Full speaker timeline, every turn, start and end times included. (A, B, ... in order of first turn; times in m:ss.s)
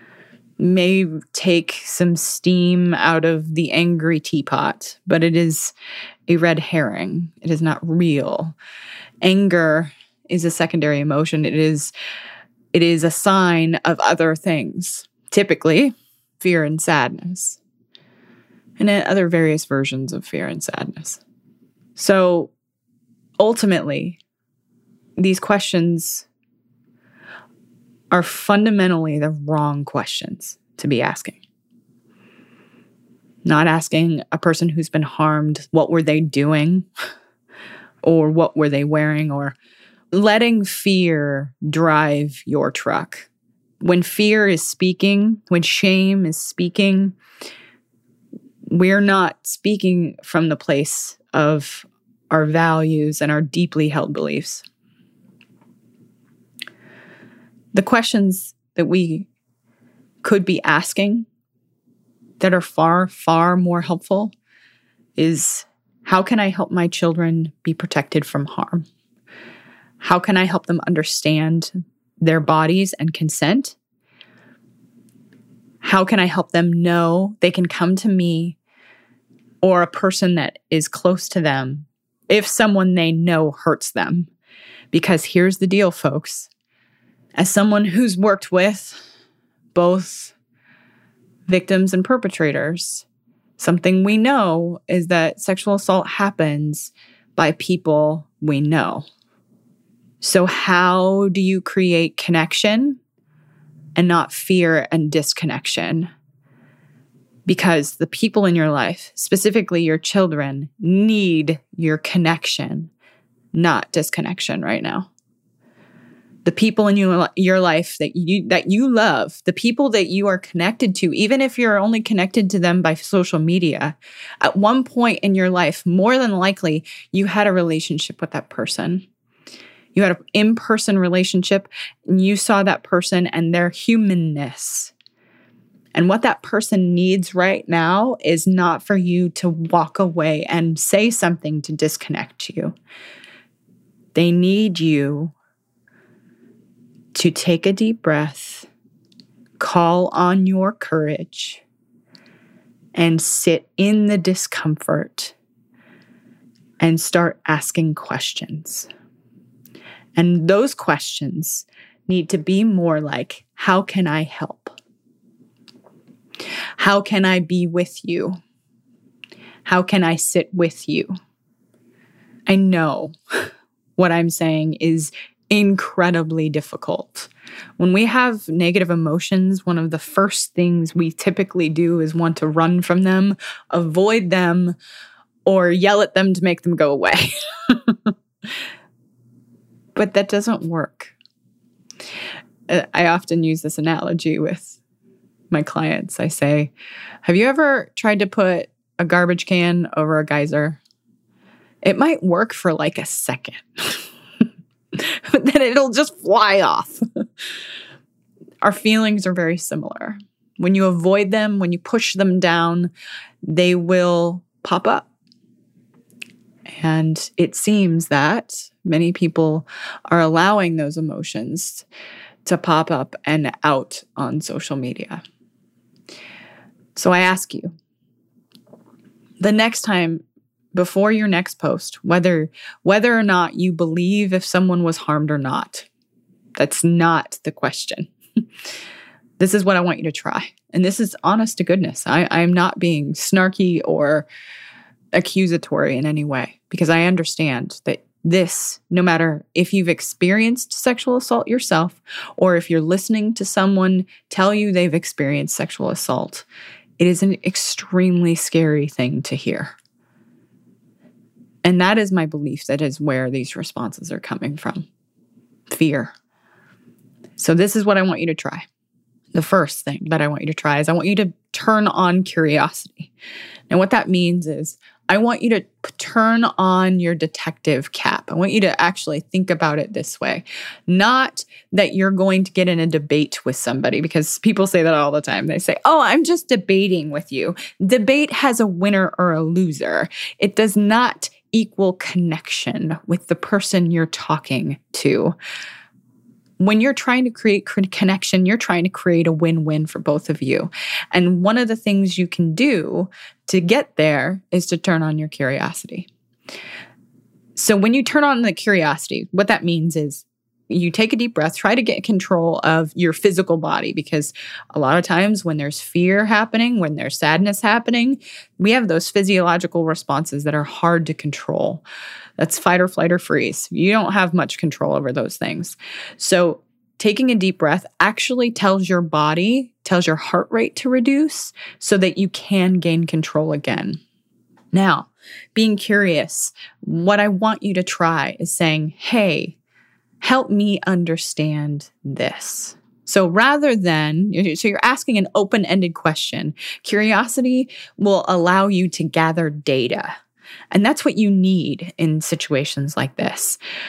0:00.6-0:05.7 A
0:06.3-0:08.6 A
0:09.2-0:11.9 A
0:12.7-0:17.6 A
0:18.8-0:21.2 A
0:22.0-0:22.5 A
0:23.4-0:24.2 A
0:25.2-0:26.2 A
0:28.1-0:31.4 A
0:33.4-0:36.8 A
0:38.0-0:39.5 A
0:40.1-0:43.3 A
0:43.8-0:47.2 A
0:48.7-0:54.6 A
0:57.7-0:59.3 A
1:00.2-1:01.3 A
1:02.4-1:04.3 A
1:05.2-1:08.9 A
1:10.0-1:13.8 A
1:15.8-1:18.6 A
1:19.6-1:24.3 A
1:24.9-1:26.5 A
1:27.4-1:29.0 A
1:29.7-1:30.3 A
1:31.5-1:33.0 A
1:33.6-1:39.0 A
1:40.2-1:43.0 A
1:44.0-1:46.1 A
1:47.5-1:52.9 A
1:53.5-1:55.1 A
1:56.4-2:09.0 A
2:09.9-2:14.9 A
2:15.9-2:22.8 A
2:24.1-2:25.3 A
2:27.1-2:28.7 A
2:29.6-2:31.6 A
2:32.9-2:35.3 A
2:36.8-2:38.9 A
2:40.2-2:44.8 A
2:46.8-2:48.4 A
2:49.6-2:51.1 A
2:52.5-2:53.1 A
2:54.0-3:04.8 A
3:05.4-3:08.1 A
3:10.0-3:11.1 A
3:12.7-3:14.8 A
3:15.5-3:16.7 A
3:17.2-3:20.8 A
3:21.8-3:24.0 A
3:24.9-3:27.0 A
3:28.6-3:32.9 A
3:33.4-3:35.1 A
3:36.8-3:41.8 A
3:42.4-3:45.2 A
3:47.0-3:47.7 A
3:49.4-3:50.2 A
3:50.7-3:55.9 A
3:56.6-3:58.1 A
3:59.4-4:04.3 A
4:05.1-4:16.4 A
4:17.0-4:19.7 A
4:21.6-4:24.9 A
4:25.7-4:26.1 A
4:27.4-4:28.6 A
4:29.3-4:33.1 A
4:33.7-4:55.3 A
4:56.6-5:06.1 A
5:07.6-5:21.8 A
5:22.4-5:34.0 A
5:34.7-5:39.6 A
5:40.2-5:50.1 A
5:50.7-5:53.6 A